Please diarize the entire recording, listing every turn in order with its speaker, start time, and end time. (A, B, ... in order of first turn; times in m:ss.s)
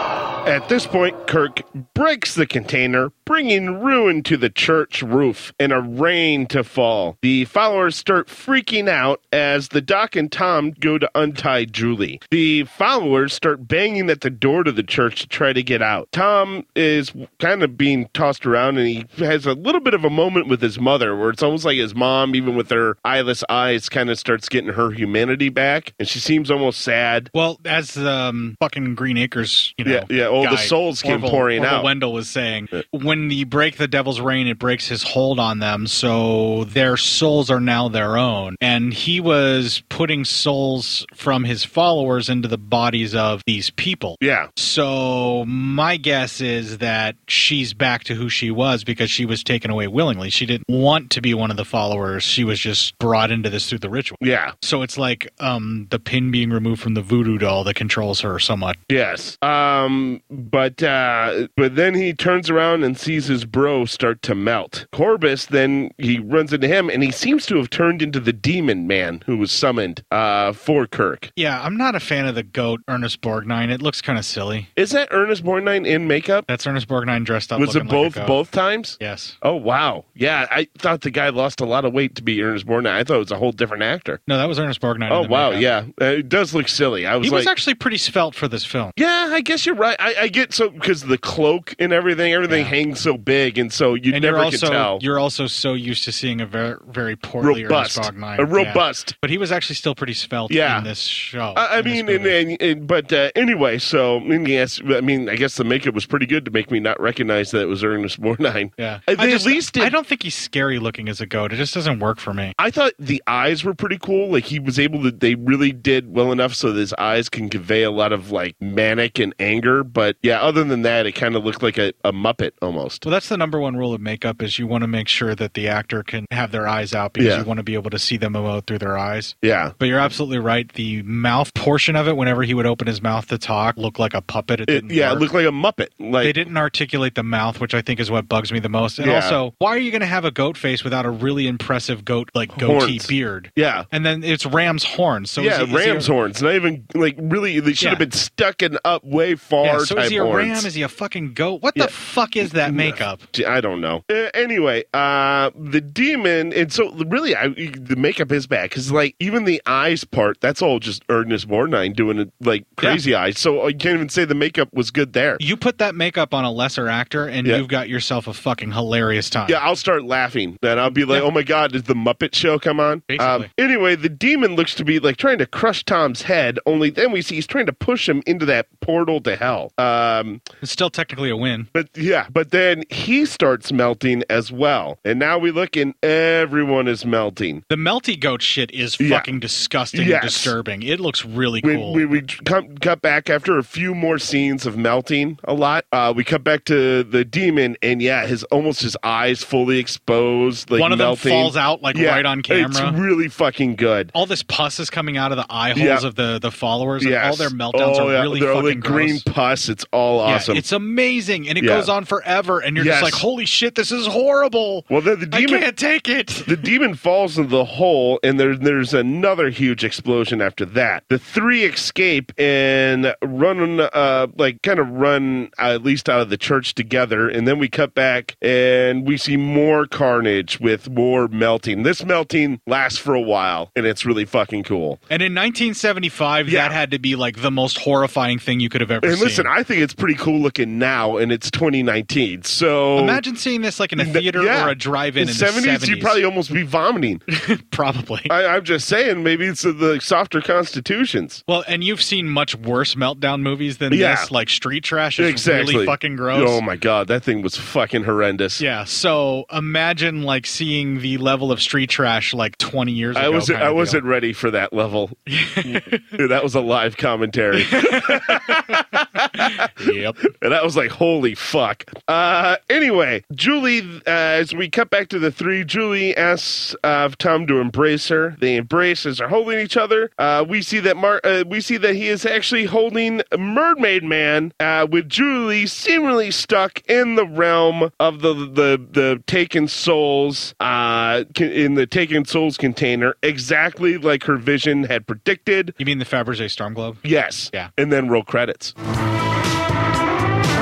0:00.4-0:27.3 A
0:27.3-0:58.8 B
0:29.8-0:31.9 A
0:44.2-0:44.5 A
0:54.2-0:54.5 A
0:58.9-1:11.3 A
1:11.4-1:14.7 B
1:14.8-1:16.5 A
1:16.5-1:18.4 B
1:17.6-1:24.2 A
1:19.0-1:19.4 B
1:24.3-1:25.7 B
1:25.1-1:27.5 A
1:27.2-1:29.0 B
1:29.0-1:35.0 A
1:32.5-1:32.8 B
1:34.1-1:42.4 B
1:37.4-1:39.1 A
1:40.5-1:40.9 A
1:41.6-1:49.9 A
1:48.8-1:52.6 B
1:52.6-2:03.0 A
2:03.0-2:15.3 B
2:07.2-2:07.5 A
2:09.4-2:09.7 A
2:14.7-2:16.4 A
2:16.2-2:26.1 B
2:19.0-2:19.4 A
2:22.5-2:23.9 A
2:25.4-2:30.7 A
2:27.8-2:28.0 B
2:29.6-2:33.3 B
2:32.5-2:45.4 A
2:45.4-2:49.6 B
2:49.5-3:00.4 A
2:53.1-2:53.5 B
3:00.6-3:01.7 B
3:01.7-3:07.6 A
3:07.7-3:12.0 B
3:09.0-3:09.3 A
3:09.9-3:10.5 A
3:11.6-3:24.1 A
3:20.8-3:23.0 B
3:24.1-3:29.2 B
3:25.8-3:26.0 A
3:27.0-3:30.6 A
3:30.3-3:36.6 B
3:31.6-3:31.9 A
3:32.8-3:33.2 A
3:34.9-3:35.7 A
3:36.4-3:55.0 A
3:55.1-3:59.5 B
3:56.5-3:56.8 A
3:59.0-4:03.2 A
4:03.0-4:06.2 B
4:04.0-4:07.2 A
4:07.3-4:08.3 B
4:08.3-4:11.4 A
4:11.5-4:16.6 B
4:13.9-4:14.3 A
4:15.2-4:18.6 A
4:18.6-4:24.0 B
4:23.2-4:28.8 A
4:25.3-4:26.1 B
4:27.7-4:28.8 B
4:29.4-4:30.2 B
4:30.3-4:55.8 A
4:55.8-4:57.7 B
4:57.0-4:58.7 A